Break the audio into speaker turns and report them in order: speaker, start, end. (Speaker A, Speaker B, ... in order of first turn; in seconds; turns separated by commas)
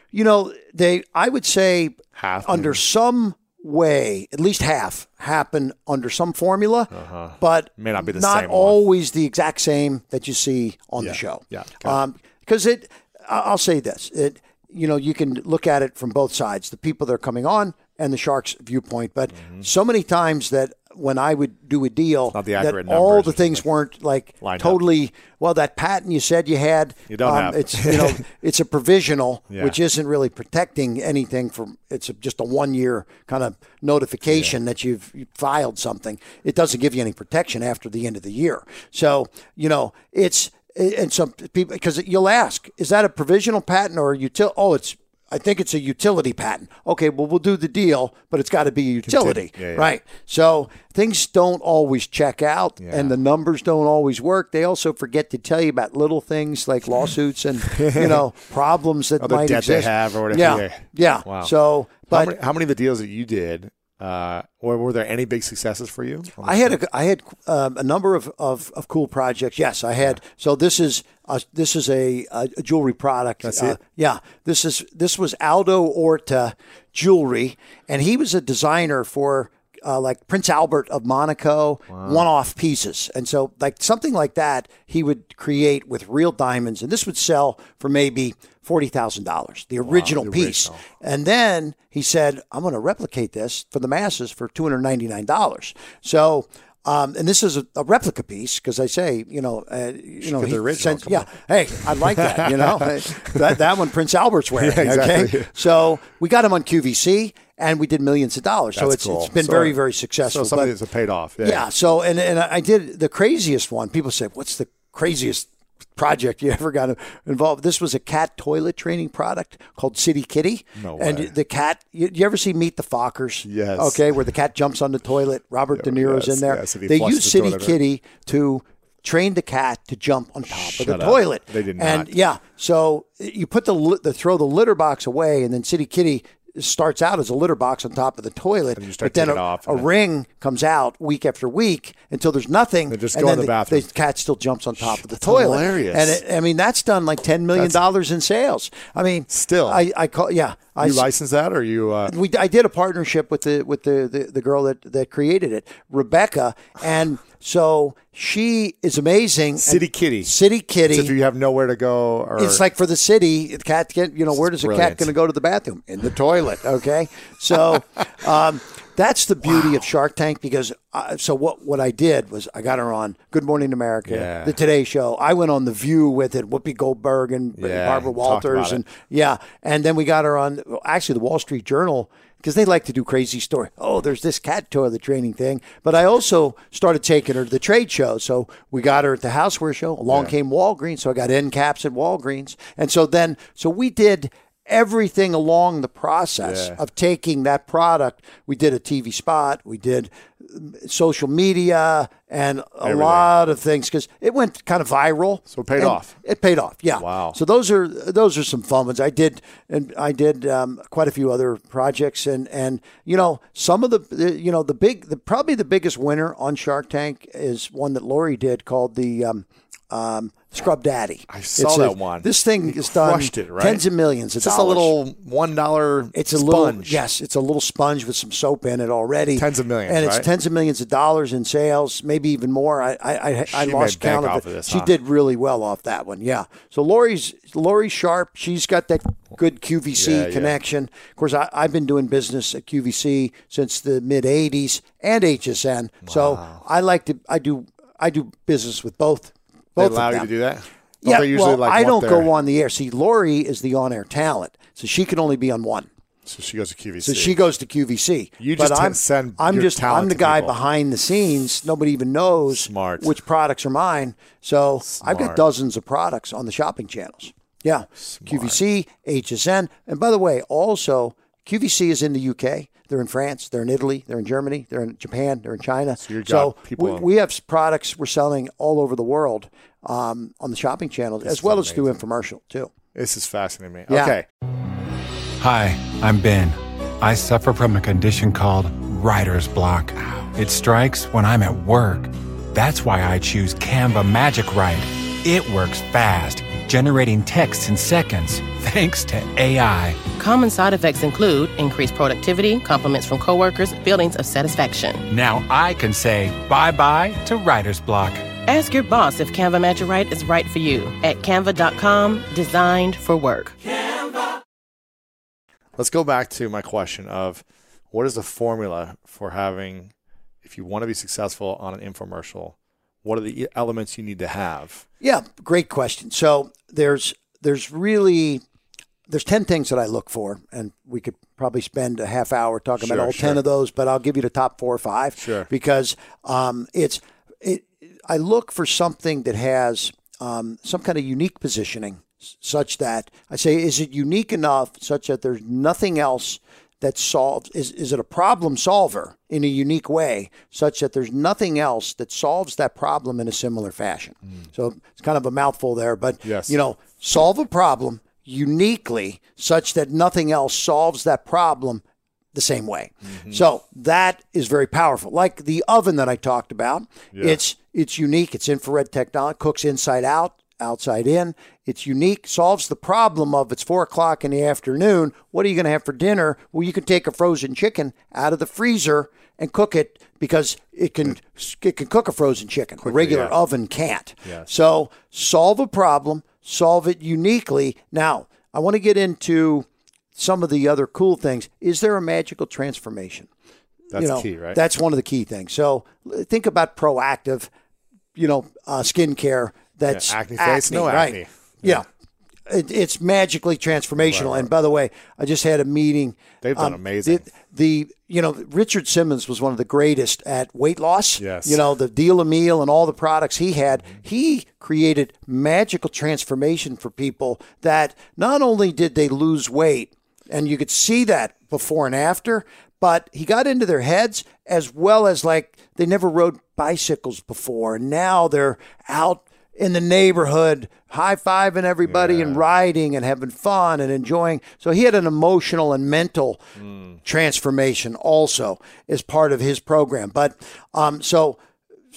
Speaker A: 0.1-62.3, Speaker B: 2.1-2.8, Speaker B: 6.9-8.8, Speaker B: 11.0-12.0, Speaker B: 19.3-19.6, Speaker B: 22.3-23.6, Speaker B: 24.4-24.8, Speaker B: 27.1-28.2, Speaker B: 29.5-29.8, Speaker B: 34.3-34.5, Speaker B: 49.0-49.9, Speaker B: 52.8-53.1, Speaker B: 57.7-58.2, Speaker B: 59.2-61.5, Speaker B: 62.0-66.8, Speaker A: 66.4-110.7, Speaker B: 73.4-73.8, Speaker B: 81.9-82.2, Speaker B: 89.8-90.8, Speaker B: 100.2-103.6, Speaker B: 104.6-105.6, Speaker B: 108.7-111.6, Speaker A: 111.4-151.1, Speaker B: 120.8-121.3, Speaker B: 123.4-124.0, Speaker B: 125.7-127.8, Speaker B: 130.5-132.1, Speaker B: 138.8-139.9, Speaker B: 142.9-143.9, Speaker B: 144.8-146.2, Speaker B: 147.5-147.8, Speaker B: 149.3-149.8, Speaker B: 150.8-152.1, Speaker A: 152.1-161.1, Speaker B: 159.6-160.3, Speaker B: 160.8-162.6, Speaker A: 162.3-224.9, Speaker B: 164.4-165.1, Speaker B: 174.1-174.6, Speaker B: 177.6-178.8, Speaker B: 190.1-190.3, Speaker B: 196.4-196.8, Speaker B: 202.8-203.3, Speaker B: 205.5-206.1, Speaker B: 207.0-207.4, Speaker B: 221.3-223.8, Speaker B: 224.4-227.0, Speaker A: 226.1-250.3, Speaker B: 229.3-230.3, Speaker B: 233.5-234.9, Speaker B: 239.9-240.6, Speaker B: 246.0-246.6, Speaker B: 249.8-252.3, Speaker A: 251.0-255.9, Speaker B: 256.2-257.4, Speaker A: 257.0-282.7, Speaker B: 258.4-260.6, Speaker B: 262.5-263.1, Speaker B: 264.8-265.4, Speaker B: 268.0-268.6, Speaker B: 276.0-277.1, Speaker B: 281.2-281.9, Speaker B: 282.9-284.2, Speaker A: 283.9-284.2, Speaker C: 285.4-300.1, Speaker D: 300.1-305.0, Speaker C: 305.1-308.3, Speaker D: 308.4-313.6, Speaker B: 315.8-319.9, Speaker B: 320.4-324.9, Speaker A: 325.0-328.4, Speaker A: 329.1-393.3, Speaker B: 332.8-333.4, Speaker B: 335.2-335.5, Speaker B: 356.2-356.6, Speaker B: 363.0-363.4, Speaker B: 367.1-367.4, Speaker B: 382.8-383.4, Speaker B: 393.9-394.6, Speaker A: 393.9-397.5, Speaker A: 398.1-401.9, Speaker B: 399.9-401.8, Speaker A: 402.5-436.4, Speaker B: 404.0-404.5, Speaker B: 406.4-407.2, Speaker B: 411.2-411.6, Speaker B: 431.8-432.4, Speaker B: 436.6-437.0, Speaker A: 437.0-441.4